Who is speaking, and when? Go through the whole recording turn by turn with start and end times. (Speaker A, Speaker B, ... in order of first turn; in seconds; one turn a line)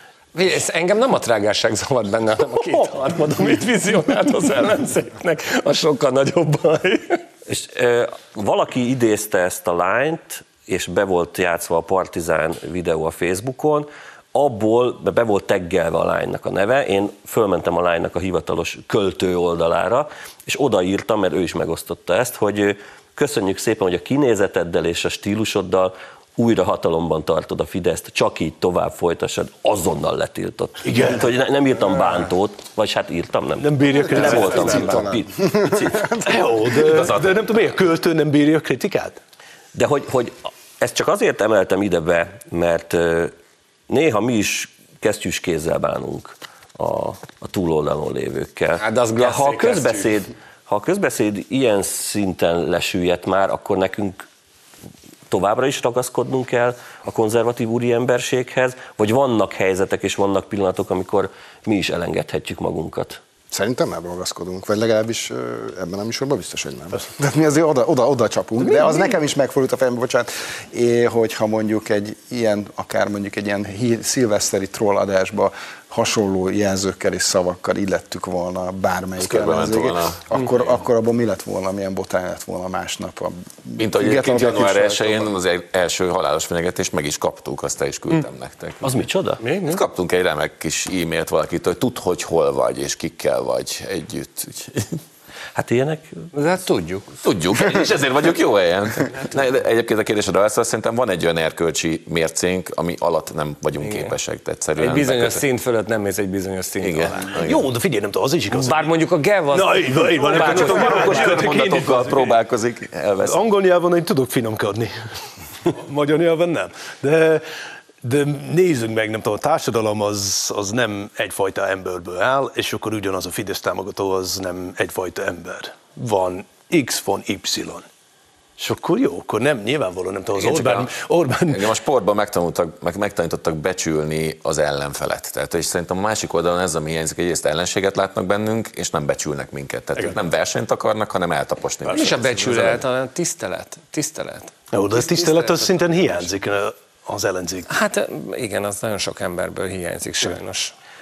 Speaker A: 0.3-7.2
Speaker B: 2.6-3.2
Speaker C: 7.5-36.1
Speaker B: 30.8-31.3
Speaker B: 33.6-35.0
Speaker D: 34.0-37.0
Speaker A: 34.2-34.8
Speaker B: 36.1-39.2
Speaker E: 36.9-37.6
Speaker C: 39.7-43.3
Speaker C: 43.9-54.2
Speaker A: 48.8-50.2
Speaker C: 55.3-63.2
Speaker D: 63.5-85.3
Speaker B: 68.6-69.2
Speaker E: 79.2-80.7
Speaker E: 83.8-89.0
Speaker C: 88.8-89.4
Speaker A: 89.4-89.8
Speaker E: 89.7-95.0
Speaker C: 95.5-96.3
Speaker A: 96.3-97.0
Speaker E: 97.2-105.4
Speaker A: 103.8-104.1
Speaker A: 104.8-107.4
Speaker E: 106.8-107.7
Speaker B: 107.4-109.0
Speaker A: 108.5-111.5
Speaker B: 109.5-112.4
Speaker E: 110.3-113.4
Speaker B: 113.2-114.9
Speaker B: 115.6-117.4
Speaker B: 118.0-127.9
Speaker B: 128.6-131.7
Speaker E: 130.4-130.9
Speaker E: 131.5-142.6
Speaker B: 141.8-142.8
Speaker A: 141.9-146.2
Speaker B: 144.7-147.7
Speaker A: 147.7-150.7